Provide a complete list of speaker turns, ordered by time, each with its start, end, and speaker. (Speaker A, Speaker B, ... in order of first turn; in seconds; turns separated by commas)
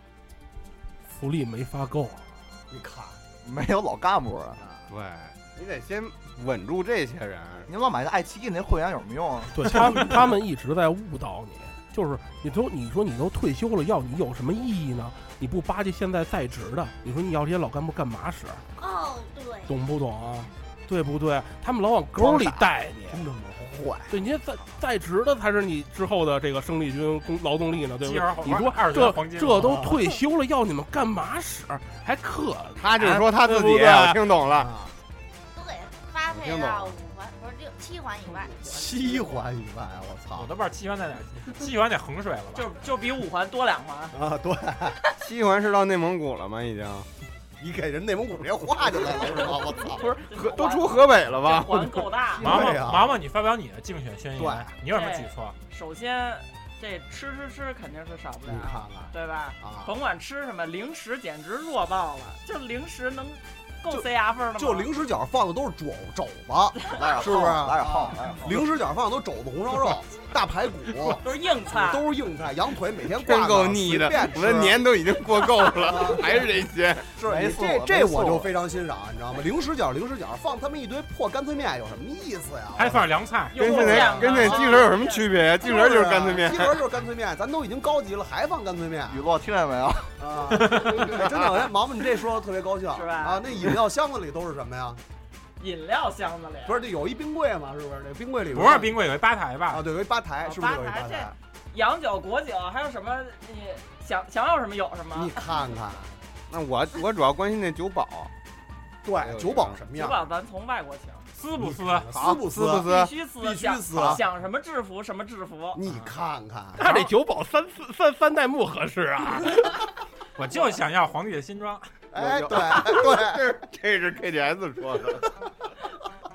Speaker A: 1.1-2.3, Speaker B: 2.7-3.2, Speaker C: 3.4-4.6, Speaker D: 4.9-7.7, Speaker C: 7.7-9.8, Speaker A: 9.5-18.7, Speaker E: 18.8-19.7, Speaker A: 19.6-23.2, Speaker B: 22.2-24.1, Speaker A: 24.1-34.3, Speaker F: 28.0-29.8, Speaker D: 32.8-34.7, Speaker B: 34.6-34.9, Speaker E: 35.5-38.8, Speaker D: 36.3-37.0, Speaker B: 38.6-40.5, Speaker G: 38.8-39.5, Speaker F: 40.4-42.7, Speaker G: 42.5-44.1, Speaker B: 44.1-45.0, Speaker D: 45.2-47.1, Speaker B: 47.6-50.0, Speaker G: 49.3-52.7, Speaker D: 49.9-52.1, Speaker B: 52.4-53.1, Speaker F: 52.4-55.6, Speaker B: 54.4-54.7, Speaker G: 54.9-64.9, Speaker B: 58.5-59.9, Speaker B: 63.9-74.8, Speaker C: 66.9-68.7, Speaker G: 71.2-72.1, Speaker D: 73.2-77.1, Speaker B: 75.8-76.5, Speaker B: 77.2-83.1, Speaker C: 77.2-78.5, Speaker F: 82.8-83.8, Speaker G: 83.5-85.5, Speaker D: 83.6-86.8, Speaker B: 83.8-84.8, Speaker B: 85.6-89.2, Speaker C: 89.1-90.1, Speaker B: 90.2-95.0, Speaker F: 90.6-91.0, Speaker D: 91.1-91.4, Speaker G: 92.9-93.5, Speaker G: 95.6-96.8, Speaker B: 96.7-99.0, Speaker F: 98.5-99.8, Speaker B: 99.7-101.3, Speaker G: 100.4-105.4, Speaker B: 105.2-106.1, Speaker D: 106.5-108.3, Speaker B: 109.0-110.2, Speaker D: 109.2-109.8, Speaker G: 109.9-111.3, Speaker F: 111.3-112.1, Speaker B: 111.6-114.2, Speaker D: 112.1-113.1, Speaker G: 112.8-115.8, Speaker B: 115.7-116.9, Speaker A: 116.8-119.8, Speaker F: 120.4-121.9, Speaker G: 120.5-120.8, Speaker B: 122.1-123.5, Speaker D: 122.2-125.2